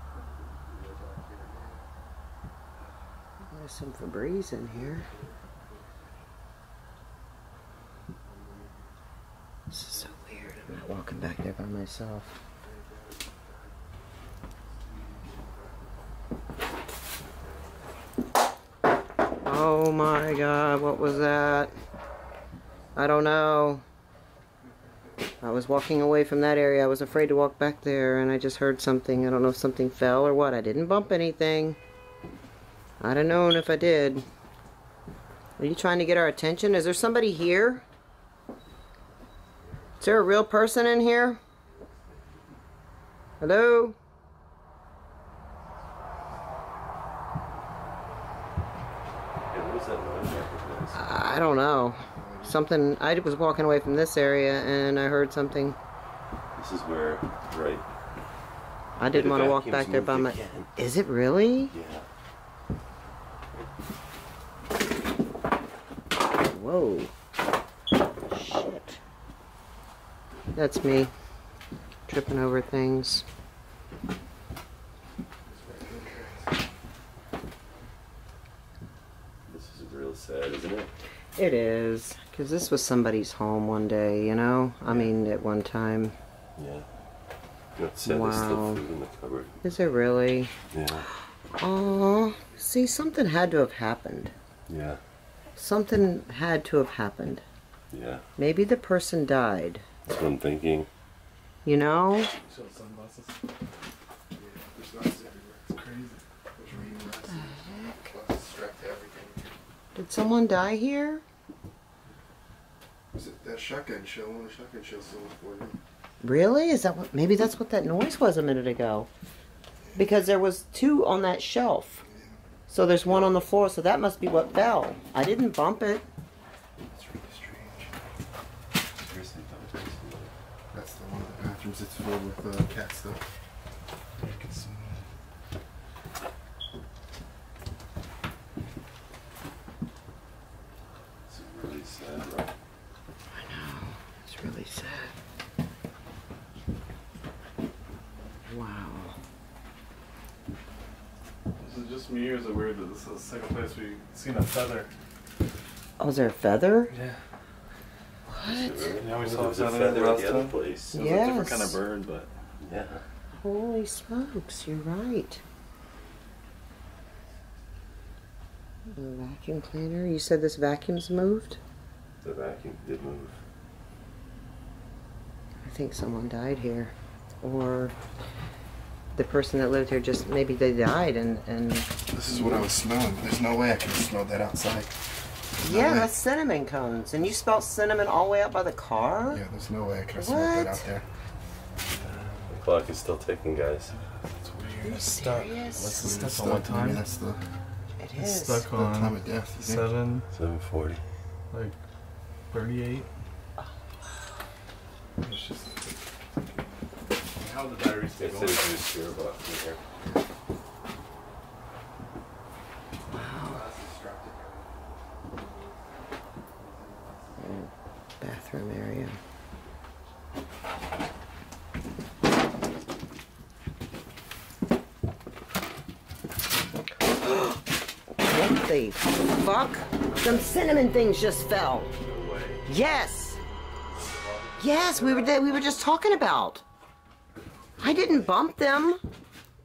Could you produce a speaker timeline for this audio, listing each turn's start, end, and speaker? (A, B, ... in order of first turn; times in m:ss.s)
0:00.7-0:01.8 A
0:03.5-0:05.1 B
0:04.7-0:06.1 A
0:08.2-0:08.9 A
0:09.7-0:12.4 B
0:12.6-0:13.6 A
0:14.7-0:15.8 A
0:19.4-0:21.7 B
0:23.0-0:23.8 B
0:25.4-0:31.8 B
0:33.0-0:34.2 B
0:35.6-0:37.8 B
0:40.0-0:41.4 B
0:43.4-0:44.0 B
0:49.5-0:51.3 C
0:50.9-0:55.8 B
0:52.0-0:52.6 A
0:56.6-0:57.8 C
0:59.0-1:01.7 B
0:59.1-1:00.7 C
1:01.7-1:02.0 C
1:06.4-1:07.1 B
1:08.3-1:09.0 B
1:10.5-1:11.1 B
1:12.1-1:13.2 B
1:15.5-1:16.6 A
1:19.5-1:20.9 C
1:21.4-1:26.1 B
1:26.6-1:26.8 C
1:27.8-1:29.6 C
1:28.0-1:28.8 B
1:29.6-1:34.3 B
1:30.7-1:31.1 C
1:32.0-1:32.6 A
1:34.7-1:35.0 C
1:35.6-1:37.4 B
1:37.9-1:38.2 C
1:38.4-1:39.8 B
1:40.0-1:40.9 C
1:41.6-1:42.3 B
1:42.4-1:43.4 D
1:44.3-1:45.7 A
1:45.7-1:46.2 D
1:46.6-1:49.5 A
1:47.3-1:48.0 B
1:49.9-1:51.2 B
1:53.1-1:55.8 A
1:56.2-1:59.1 B
2:00.0-2:02.0 B
2:02.0-2:02.4 A
2:02.7-2:06.0 B
2:06.9-2:07.9 A
2:09.0-2:10.3 C
2:10.7-2:13.2 A
2:14.2-2:15.0 D
2:21.3-2:22.5 C
2:23.3-2:25.1 B
2:28.5-2:29.2 B
2:31.6-2:34.9 D
2:36.0-2:36.9 B
2:36.9-2:37.2 D
2:38.3-2:38.9 B
2:38.4-2:40.9 C
2:39.0-2:42.3 D
2:40.9-2:41.8 B
2:42.6-2:43.0 C
2:43.3-2:45.4 B
2:48.9-2:51.6 B
2:52.2-2:53.3 C
2:55.6-2:57.9 B
2:59.1-3:01.9 B
3:02.1-3:05.0 A
3:05.6-3:06.1 A
3:05.6-3:09.4 B
3:09.3-3:11.1 A
3:10.2-3:10.9 B
3:12.5-3:13.9 C
3:13.9-3:17.0 D
3:14.8-3:16.1 B
3:15.8-3:17.4 A
3:18.0-3:18.7 B
3:18.2-3:20.3 D
3:18.7-3:19.9 A
3:20.3-3:21.0 C
3:21.5-3:21.8 D
3:22.5-3:23.1 D
3:25.2-3:25.9 D
3:27.4-3:28.7 D
3:28.2-3:29.8 C
3:29.9-3:30.2 A
3:33.1-3:33.6 B
3:33.3-3:35.8 A
3:36.6-3:37.6 A
3:37.4-3:39.2 B
3:47.2-3:47.6 B
3:48.2-3:51.9 B
3:51.9-3:52.6 C
3:52.6-3:53.4 B
3:53.9-3:55.4 A
3:54.6-3:56.6 B
3:57.8-3:59.0 B